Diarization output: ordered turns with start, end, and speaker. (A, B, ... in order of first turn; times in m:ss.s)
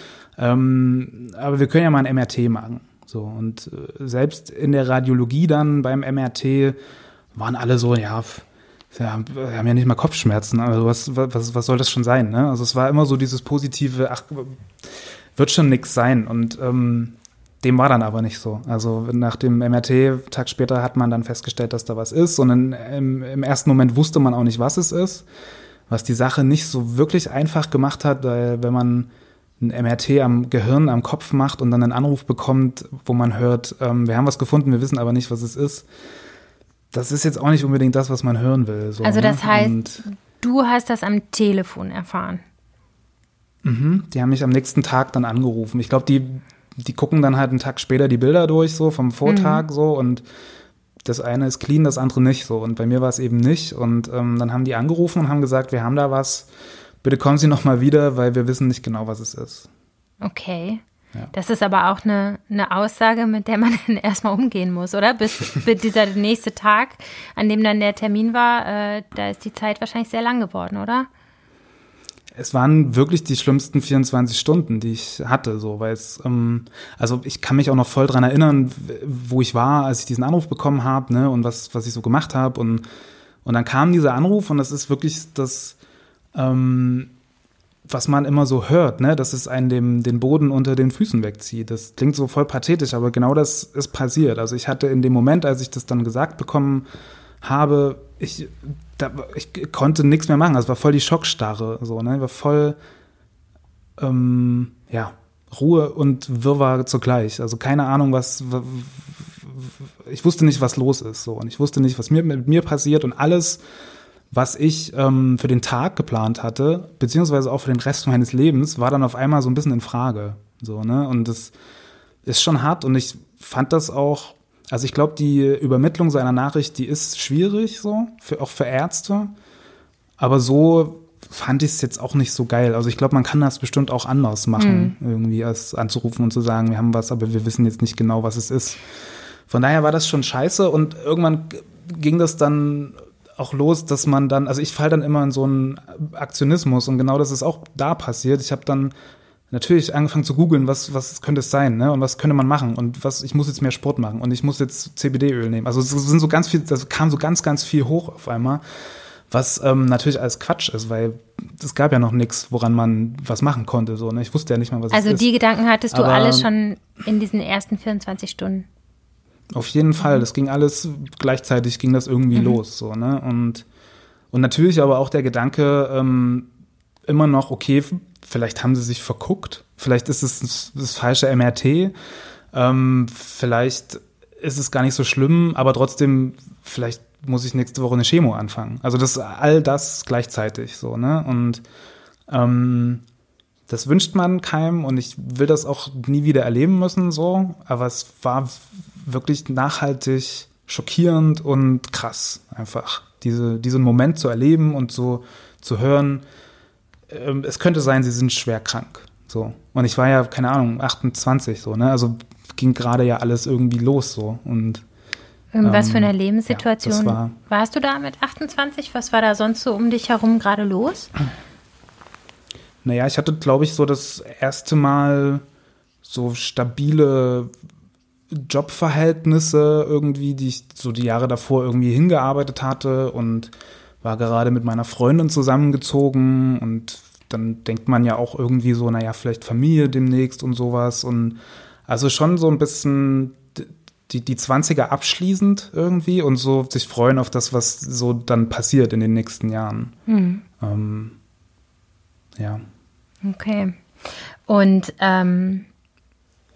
0:00.4-0:06.8 A
0:07.4-0:14.6 A
0:15.4-0:25.2 A
0:25.9-0:35.9 A
0:36.9-0:40.0 A
0:39.0-0:39.8 B
0:40.3-0:42.4 B
0:43.6-0:50.2 A
0:49.3-0:49.6 B
0:51.0-0:56.5 A
0:57.0-0:59.7 A
1:00.2-1:11.1 B
1:12.4-1:22.8 A
1:23.4-1:25.8 A
1:26.3-1:27.1 A
1:27.9-1:36.9 A
1:37.4-1:42.8 A
1:44.0-1:53.6 A
1:54.3-2:01.5 A
2:02.3-2:09.3 A
2:10.2-2:18.9 A
2:14.6-2:15.0 B
2:19.5-2:28.9 A
2:29.5-2:38.6 A
2:39.3-2:45.3 A
2:44.9-2:48.7 B
2:45.9-2:46.5 A
2:49.5-2:53.6 A
2:52.3-2:52.6 B
2:54.3-2:56.5 A
2:57.1-3:01.9 A
3:02.5-3:11.6 A
3:12.3-3:13.0 A
3:13.7-3:26.2 A
3:27.1-3:34.8 A
3:35.5-3:41.1 B
3:35.6-3:37.4 A
3:42.8-3:45.4 A
3:46.0-3:47.5 A
3:48.3-4:10.0 A
4:10.1-4:10.4 B
4:10.6-4:11.2 A
4:12.4-4:12.6 A
4:13.2-4:13.8 B
4:14.5-4:15.7 B